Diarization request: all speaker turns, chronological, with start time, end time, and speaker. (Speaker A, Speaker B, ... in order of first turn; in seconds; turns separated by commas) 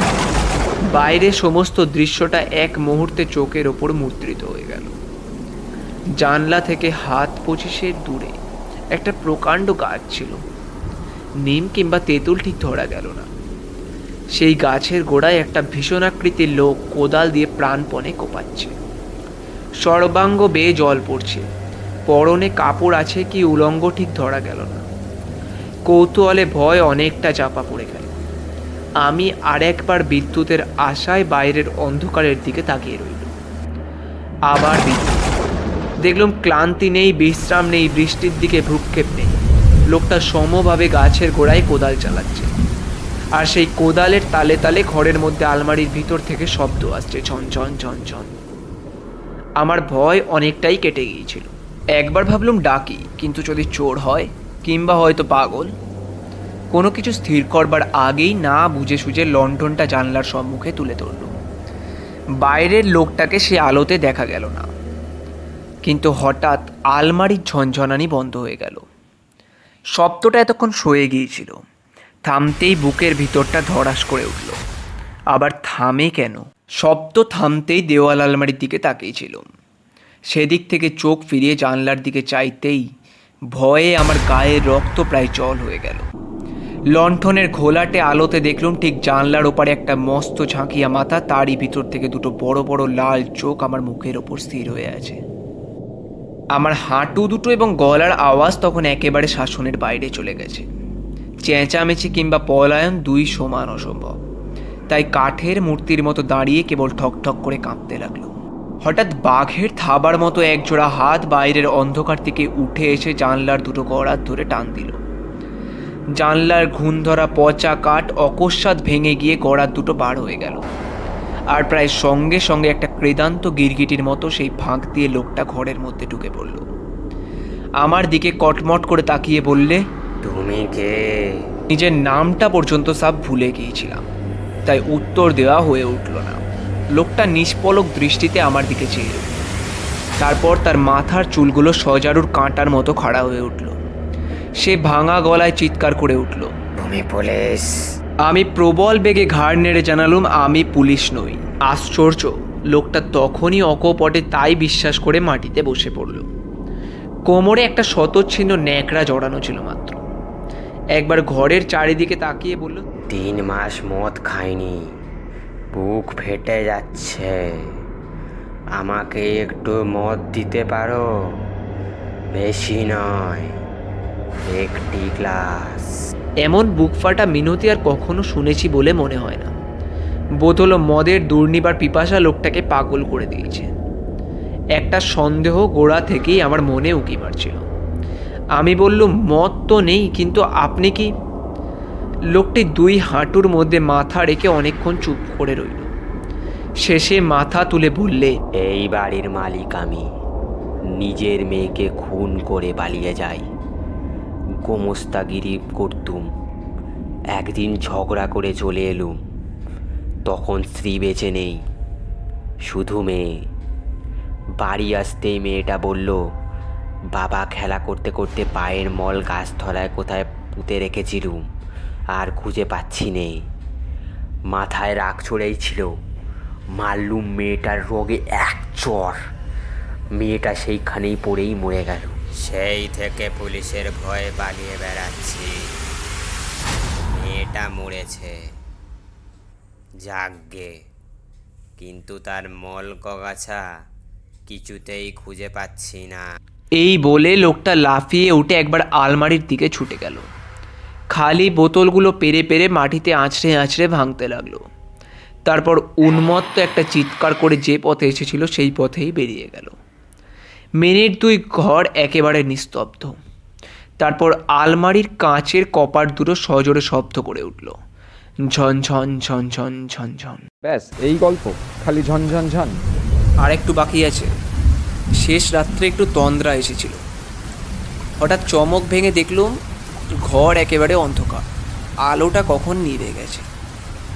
Speaker A: 0.9-5.0, Speaker A: 6.2-8.3, Speaker A: 8.9-10.4, Speaker A: 11.4-13.3, Speaker A: 14.3-18.7, Speaker A: 19.8-21.5, Speaker A: 22.1-24.9, Speaker A: 25.9-28.1, Speaker A: 29.0-33.3, Speaker A: 34.5-35.4, Speaker A: 36.0-39.4, Speaker A: 39.9-42.5, Speaker A: 43.3-48.3, Speaker A: 49.6-55.7, Speaker A: 56.7-61.3, Speaker A: 62.4-64.7, Speaker A: 65.8-68.8, Speaker A: 69.9-71.6, Speaker A: 72.2-74.6, Speaker A: 75.3-79.5, Speaker A: 80.3-82.9, Speaker A: 83.5-86.1, Speaker A: 86.9-95.2, Speaker A: 96.5-100.7, Speaker A: 101.4-104.2, Speaker A: 104.9-115.0, Speaker A: 116.2-120.7, Speaker A: 121.5-126.7, Speaker A: 127.8-129.8, Speaker B: 130.2-131.4, Speaker A: 131.7-134.0, Speaker A: 134.7-136.4, Speaker A: 136.9-139.4, Speaker A: 140.2-143.8, Speaker A: 144.6-146.5, Speaker B: 146.8-147.7, Speaker A: 148.2-156.3, Speaker A: 157.3-160.0, Speaker A: 160.9-162.8, Speaker B: 163.1-164.8, Speaker B: 165.7-167.4, Speaker B: 168.8-171.0, Speaker B: 172.3-173.5, Speaker B: 174.5-175.8, Speaker A: 176.4-179.5, Speaker A: 180.4-183.7, Speaker A: 184.8-187.6, Speaker A: 188.6-191.1, Speaker A: 192.3-195.9, Speaker A: 196.8-198.3, Speaker B: 198.6-200.1, Speaker B: 201.0-203.4, Speaker B: 204.7-206.2, Speaker B: 207.3-209.2, Speaker B: 210.2-211.6, Speaker B: 212.7-213.4, Speaker B: 214.6-216.2, Speaker B: 217.1-221.4, Speaker B: 222.1-223.4, Speaker B: 224.5-225.9, Speaker B: 226.7-229.2, Speaker B: 230.2-235.8, Speaker B: 237.1-238.3, Speaker B: 240.0-240.7, Speaker B: 241.8-243.6, Speaker B: 244.5-246.2, Speaker A: 246.8-250.3, Speaker A: 251.1-254.6, Speaker A: 255.4-259.7, Speaker A: 260.8-263.2, Speaker A: 264.0-267.8, Speaker A: 268.5-270.4, Speaker C: 270.6-272.8, Speaker A: 273.4-274.3, Speaker A: 275.2-277.0, Speaker A: 278.2-279.5, Speaker A: 280.2-281.5, Speaker A: 282.0-283.4